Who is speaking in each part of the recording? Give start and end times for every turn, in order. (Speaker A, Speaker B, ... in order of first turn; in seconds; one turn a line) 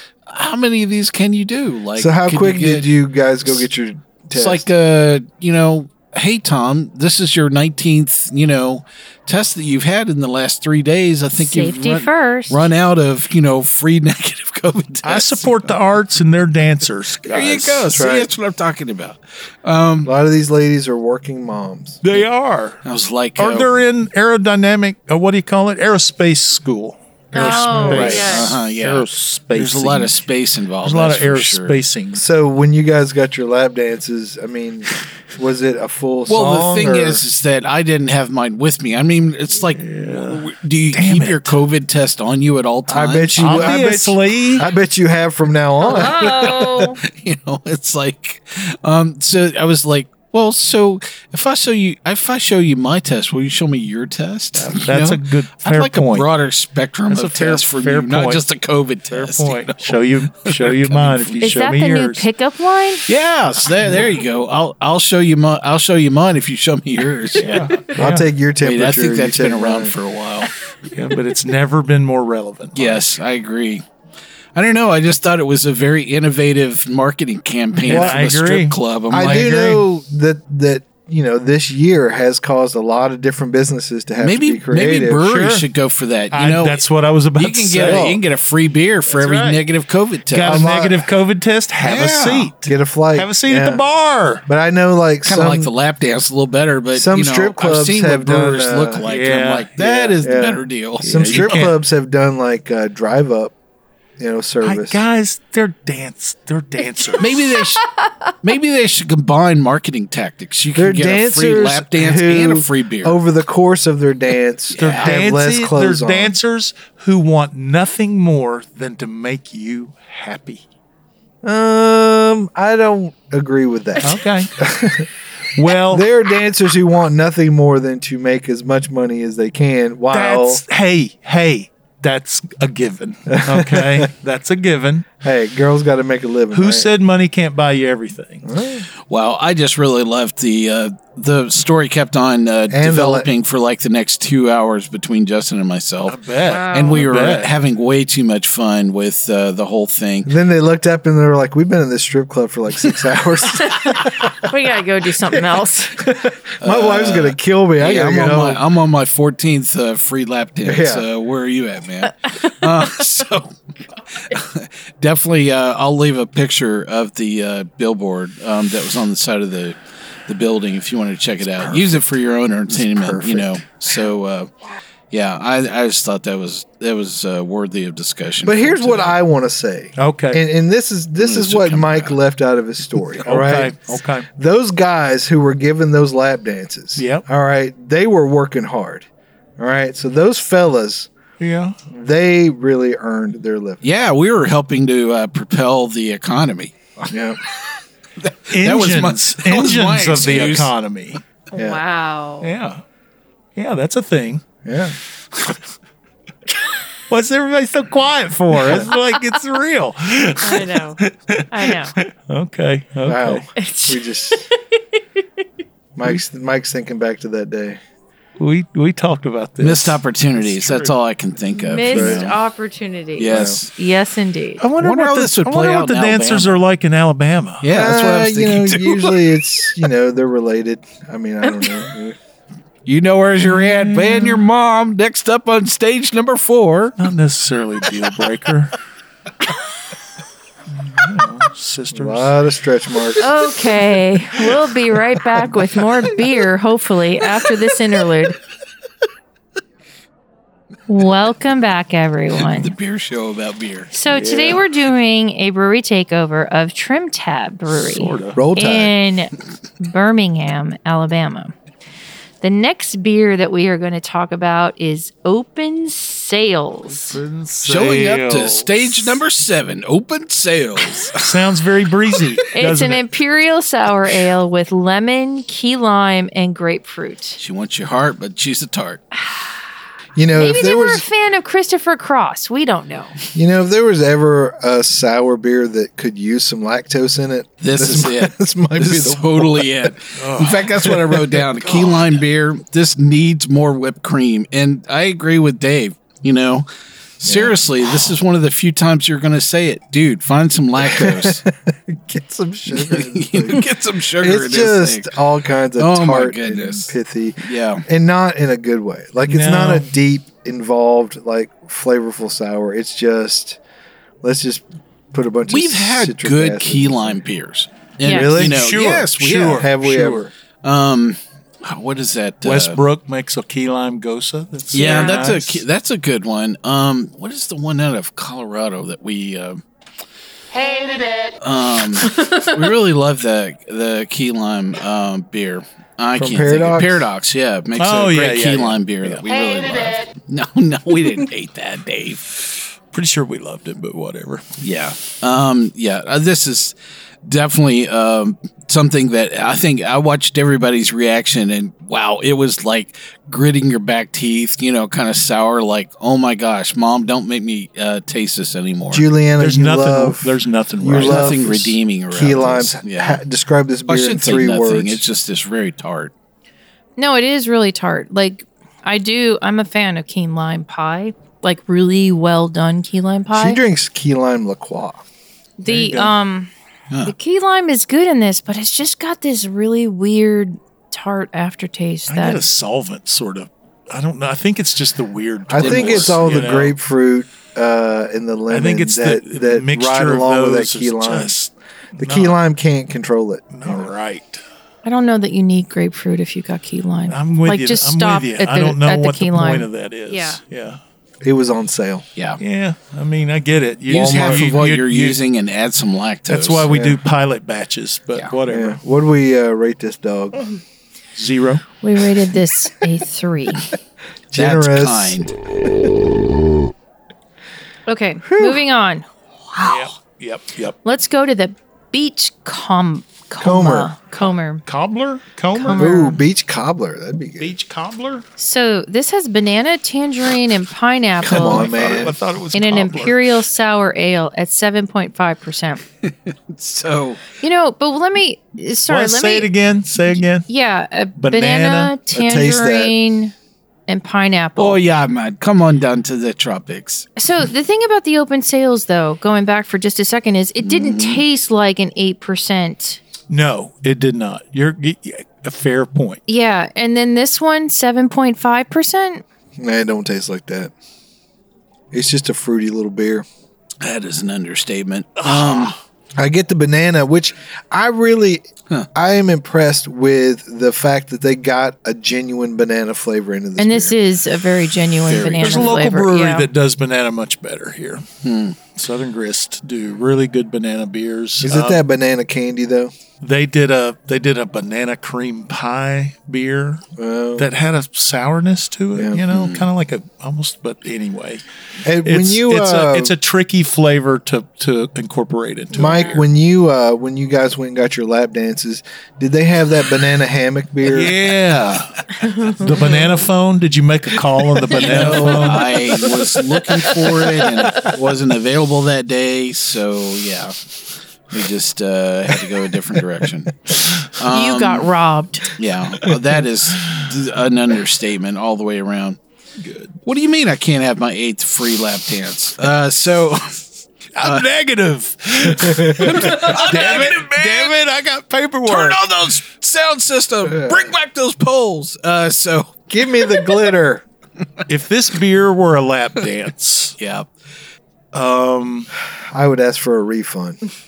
Speaker A: 0.3-2.9
Speaker B: 1.9-4.7
Speaker A: 4.3-15.8
Speaker C: 11.4-12.6
Speaker D: 15.0-18.0
Speaker A: 17.2-20.1
Speaker B: 17.9-18.3
Speaker B: 20.0-22.0
Speaker D: 22.0-22.8
Speaker A: 22.8-23.7
Speaker D: 23.4-30.2
Speaker C: 27.3-28.6
Speaker A: 27.4-31.8
Speaker B: 27.7-28.0
Speaker D: 30.8-32.2
Speaker B: 32.1-37.2
Speaker A: 36.3-43.8
Speaker D: 39.8-41.5
Speaker B: 42.9-46.6
Speaker D: 43.4-44.7
Speaker C: 45.8-47.0
Speaker A: 46.2-61.6
Speaker D: 54.6-56.2
Speaker D: 57.1-58.4
Speaker D: 59.1-62.2
Speaker C: 61.4-63.0
Speaker A: 63.1-67.6
Speaker D: 63.8-64.1
Speaker D: 67.4-68.2
Speaker B: 67.9-69.9
Speaker A: 68.6-70.5
Speaker D: 70.9-73.0
Speaker A: 72.7-73.8
Speaker A: 74.5-79.8
Speaker D: 77.8-79.8
Speaker B: 77.8-78.3
Speaker B: 79.1-85.3
Speaker A: 84.2-86.8
Speaker D: 85.2-85.6
Speaker D: 86.3-88.2
Speaker A: 87.3-90.9
Speaker B: 87.8-88.2
Speaker D: 89.1-89.6
Speaker D: 90.3-94.4
Speaker B: 90.4-91.0
Speaker A: 91.8-92.5
Speaker B: 92.6-93.8
Speaker B: 94.5-95.7
Speaker A: 95.2-101.7
Speaker B: 96.9-99.0
Speaker D: 99.0-100.2
Speaker B: 100.2-103.5
Speaker D: 101.0-101.8
Speaker B: 104.2-105.0
Speaker D: 104.6-107.5
Speaker A: 107.2-107.8
Speaker A: 108.4-113.2
Speaker B: 110.7-116.3
Speaker A: 114.7-115.2
Speaker D: 114.8-120.6
Speaker B: 121.4-125.1
Speaker D: 124.0-124.5
Speaker D: 125.5-126.0
Speaker B: 125.8-130.6
Speaker D: 130.1-135.1
Speaker B: 133.3-134.1
Speaker B: 135.2-136.9
Speaker D: 136.5-138.5
Speaker B: 138.4-138.8
Speaker A: 139.1-146.2
Speaker B: 142.7-143.3
Speaker D: 146.0-147.5
Speaker C: 146.4-147.0
Speaker A: 146.7-150.3
Speaker B: 150.2-154.3
Speaker C: 153.5-156.0
Speaker B: 155.3-158.6
Speaker A: 156.6-163.5
Speaker B: 160.6-161.1
Speaker C: 162.2-162.6
Speaker A: 164.2-174.5
Speaker D: 171.4-172.1
Speaker D: 172.7-173.6
Speaker A: 175.1-179.2
Speaker B: 178.4-189.1
Speaker D: 180.0-180.4
Speaker A: 181.2-182.2
Speaker D: 183.2-184.3
Speaker D: 186.9-187.2
Speaker B: 189.6-191.1
Speaker D: 191.4-191.8
Speaker B: 191.9-193.8
Speaker A: 193.8-197.1
Speaker B: 197.1-197.4
Speaker A: 198.2-200.7
Speaker D: 198.5-201.2
Speaker B: 201.5-201.8
Speaker C: 201.5-202.5
Speaker D: 202.4-202.8
Speaker D: 203.6-204.4
Speaker B: 204.6-204.9
Speaker D: 205.3-205.6
Speaker D: 207.1-213.4
Speaker C: 210.4-211.9
Speaker B: 213.0-214.4
Speaker C: 213.6-214.8
Speaker B: 216.0-217.8
Speaker D: 218.4-220.9
Speaker A: 219.6-222.3
Speaker C: 221.5-224.6
Speaker B: 221.9-222.2
Speaker A: 223.2-223.7
Speaker B: 223.3-223.6
Speaker D: 224.6-227.6
Speaker A: 224.8-226.6
Speaker A: 227.6-229.2
Speaker B: 227.7-232.2
Speaker A: 232.8-237.0
Speaker D: 233.5-234.4
Speaker D: 237.0-238.8
Speaker D: 240.7-242.3
Speaker B: 241.9-243.2
Speaker C: 243.2-248.4
Speaker C: 250.9-252.7
Speaker A: 252.4-253.9
Speaker C: 253.9-261.5
Speaker D: 254.1-254.6
Speaker D: 257.7-258.4
Speaker B: 258.3-258.9
Speaker C: 262.4-267.2
Speaker D: 266.9-268.7
Speaker A: 267.6-271.3
Speaker D: 271.1-273.0
Speaker C: 272.5-277.4
Speaker A: 277.4-279.0
Speaker C: 279.2-279.4
Speaker B: 280.1-281.0
Speaker C: 280.4-283.1
Speaker B: 283.3-289.9
Speaker A: 287.6-296.7
Speaker D: 290.2-292.2
Speaker A: 297.2-301.4
Speaker B: 297.2-297.6
Speaker B: 300.8-303.7
Speaker A: 302.7-305.1
Speaker B: 304.2-313.6
Speaker A: 305.8-307.8
Speaker D: 309.3-309.9
Speaker B: 314.2-317.2
Speaker A: 315.5-319.7
Speaker B: 318.1-318.7
Speaker D: 318.3-320.2
Speaker B: 319.6-320.3
Speaker A: 320.6-322.8
Speaker D: 322.4-325.6
Speaker A: 324.7-329.6
Speaker C: 324.8-325.2
Speaker C: 330.6-330.9
Speaker A: 331.4-342.4
Speaker C: 332.2-332.5
Speaker B: 336.1-337.1
Speaker D: 337.8-339.2
Speaker D: 342.9-344.4
Speaker A: 344.6-346.7
Speaker A: 347.2-359.1
Speaker B: 358.9-365.0
Speaker D: 359.4-361.5
Speaker A: 360.9-363.2
Speaker A: 363.9-366.1
Speaker C: 367.0-373.6
Speaker B: 373.3-375.0
Speaker C: 375.6-376.5
Speaker D: 375.7-376.1
Speaker C: 377.1-382.4
Speaker D: 382.1-386.8
Speaker B: 385.5-391.3
Speaker A: 385.6-386.6
Speaker D: 388.5-392.4
Speaker B: 392.0-393.9
Speaker D: 393.5-394.4
Speaker C: 394.8-400.4
Speaker D: 397.1-400.8
Speaker B: 401.2-402.0
Speaker D: 402.4-405.2
Speaker A: 403.9-406.7
Speaker B: 403.9-404.5
Speaker D: 406.3-408.8
Speaker B: 406.7-407.0
Speaker B: 408.5-410.4
Speaker D: 411.1-411.6
Speaker C: 411.8-413.7
Speaker B: 414.3-415.3
Speaker A: 414.3-415.3
Speaker C: 417.9-419.9
Speaker B: 418.2-418.6
Speaker D: 419.6-420.8
Speaker C: 420.8-424.6
Speaker B: 423.4-423.9
Speaker D: 424.6-426.0
Speaker C: 425.5-426.2
Speaker B: 425.7-427.5
Speaker D: 427.4-428.2
Speaker C: 428.4-431.9
Speaker B: 431.2-432.2
Speaker D: 431.3-433.1
Speaker C: 432.5-435.8
Speaker A: 436.0-437.2
Speaker C: 437.4-439.5
Speaker D: 438.9-440.4
Speaker C: 440.4-443.3
Speaker D: 441.2-441.9
Speaker B: 442.1-442.9
Speaker C: 443.9-444.8
Speaker A: 444.6-447.1
Speaker C: 447.2-453.0
Speaker A: 450.6-451.2
Speaker D: 453.3-456.2
Speaker C: 456.3-459.2
Speaker B: 459.6-460.7
Speaker B: 461.9-463.2
Speaker A: 463.8-465.7
Speaker D: 465.2-465.8
Speaker B: 466.2-473.9
Speaker C: 473.6-476.5
Speaker A: 475.1-475.7
Speaker D: 475.4-478.0
Speaker A: 478.2-478.6
Speaker D: 478.7-481.8
Speaker B: 481.4-482.9
Speaker D: 483.2-486.8
Speaker B: 487.0-487.5
Speaker D: 487.4-491.4
Speaker B: 488.9-489.2
Speaker A: 489.3-489.7
Speaker B: 491.8-493.1
Speaker D: 492.0-496.2
Speaker B: 495.7-501.2
Speaker D: 500.9-506.0
Speaker C: 502.2-503.0
Speaker A: 504.7-510.6
Speaker B: 504.9-505.4
Speaker A: 511.3-514.9
Speaker C: 514.2-515.5
Speaker A: 515.5-519.2
Speaker D: 519.6-519.9
Speaker A: 520.0-523.6
Speaker D: 524.1-529.0
Speaker B: 525.6-526.1
Speaker A: 526.0-527.8
Speaker A: 528.6-532.8
Speaker B: 530.4-530.9
Speaker B: 532.9-534.0
Speaker D: 534.7-536.9
Speaker A: 537.0-537.3
Speaker D: 538.1-538.9
Speaker B: 539.1-540.6